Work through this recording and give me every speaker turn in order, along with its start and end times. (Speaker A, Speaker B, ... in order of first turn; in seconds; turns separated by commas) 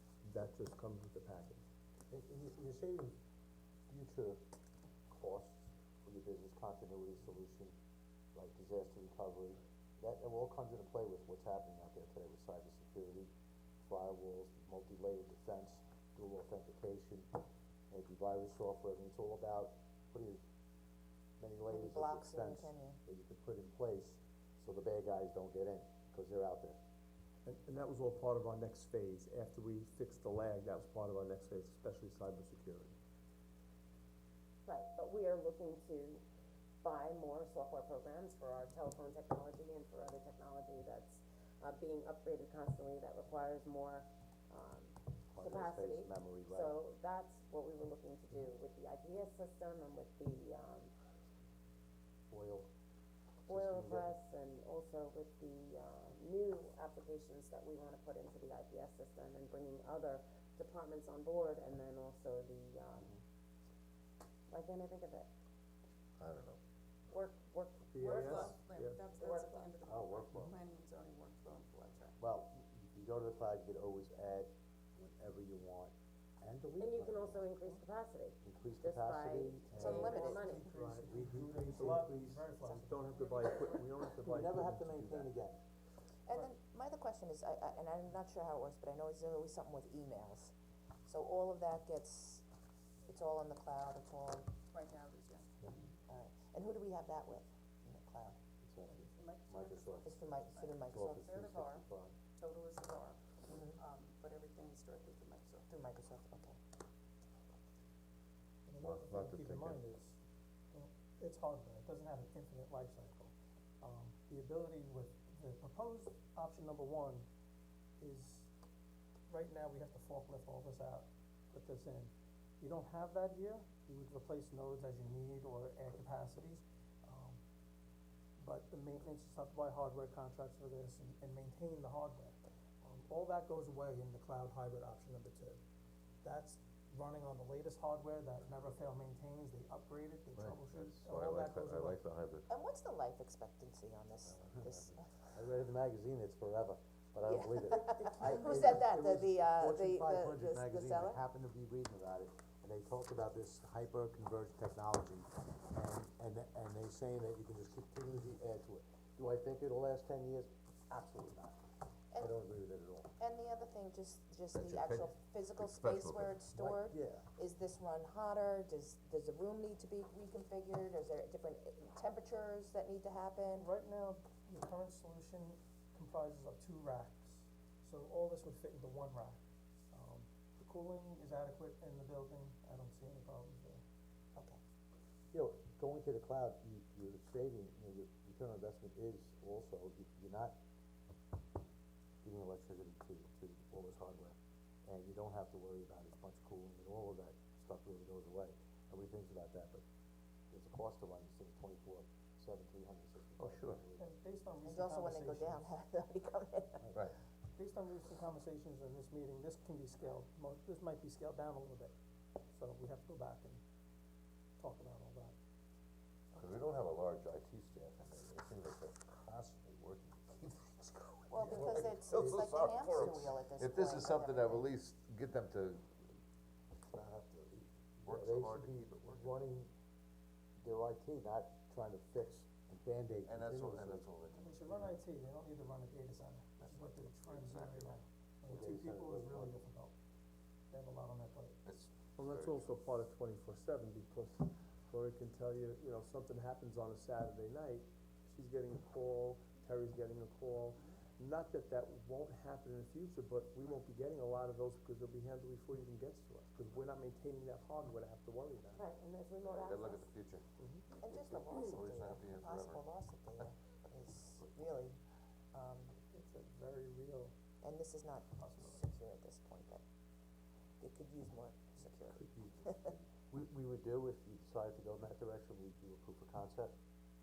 Speaker A: 0.2-1.6, Speaker B: 2.1-3.1, Speaker B: 3.9-4.4, Speaker B: 5.1-7.7, Speaker B: 8.3-17.3, Speaker B: 17.9-20.4, Speaker B: 21.4-26.8, Speaker C: 21.7-23.0, Speaker A: 27.4-33.0, Speaker D: 34.6-36.2, Speaker D: 36.8-50.9, Speaker B: 45.3-46.7, Speaker B: 52.3-52.7, Speaker D: 53.5-63.1, Speaker B: 53.5-54.1, Speaker D: 64.5-65.3, Speaker E: 66.2-66.6, Speaker D: 67.1-68.5, Speaker A: 67.9-69.0, Speaker F: 68.0-72.2, Speaker D: 69.1-69.8, Speaker B: 69.8-70.5, Speaker B: 72.2-77.5, Speaker D: 76.8-80.6, Speaker B: 78.4-80.5, Speaker C: 79.7-80.4, Speaker G: 80.1-83.7, Speaker A: 80.6-85.3, Speaker B: 81.7-82.2, Speaker B: 84.0-85.6, Speaker C: 86.2-90.5, Speaker C: 91.0-92.4, Speaker C: 93.1-94.5, Speaker F: 94.7-95.5, Speaker C: 96.0-98.4, Speaker B: 98.6-100.2, Speaker F: 99.1-101.8, Speaker C: 100.0-101.2, Speaker B: 100.9-102.2, Speaker F: 102.3-105.7, Speaker C: 103.5-103.8, Speaker C: 105.7-106.6, Speaker G: 108.7-110.2, Speaker E: 108.8-109.8, Speaker G: 110.7-117.3, Speaker G: 118.0-118.5, Speaker G: 119.3-127.4, Speaker G: 128.4-135.6, Speaker G: 136.2-142.0, Speaker E: 140.4-142.5, Speaker C: 142.5-145.3, Speaker B: 144.4-144.7, Speaker B: 145.3-163.1, Speaker C: 147.2-151.2, Speaker C: 163.2-173.7, Speaker E: 164.5-166.4, Speaker B: 166.5-167.2, Speaker G: 173.6-179.4, Speaker G: 179.9-183.8, Speaker B: 185.3-190.5, Speaker B: 192.2-199.8, Speaker B: 200.5-204.0, Speaker E: 203.4-203.8, Speaker G: 204.0-205.6, Speaker C: 204.6-206.9, Speaker G: 207.5-211.9, Speaker G: 212.5-213.6, Speaker G: 214.6-215.3, Speaker E: 216.3-225.9, Speaker C: 221.3-224.8, Speaker B: 221.4-222.6, Speaker E: 226.9-229.4, Speaker B: 228.1-229.7, Speaker B: 230.6-234.1, Speaker E: 233.2-235.0, Speaker G: 234.3-239.9, Speaker E: 236.6-238.0, Speaker B: 238.5-239.6, Speaker G: 240.7-241.6, Speaker E: 241.6-242.8, Speaker A: 242.2-258.8, Speaker D: 258.7-260.1, Speaker E: 259.4-260.4, Speaker C: 260.9-265.0, Speaker E: 261.1-263.5, Speaker C: 265.5-265.9, Speaker G: 266.1-267.3, Speaker C: 267.6-269.8, Speaker G: 268.4-268.9, Speaker C: 270.8-272.9, Speaker B: 272.1-276.7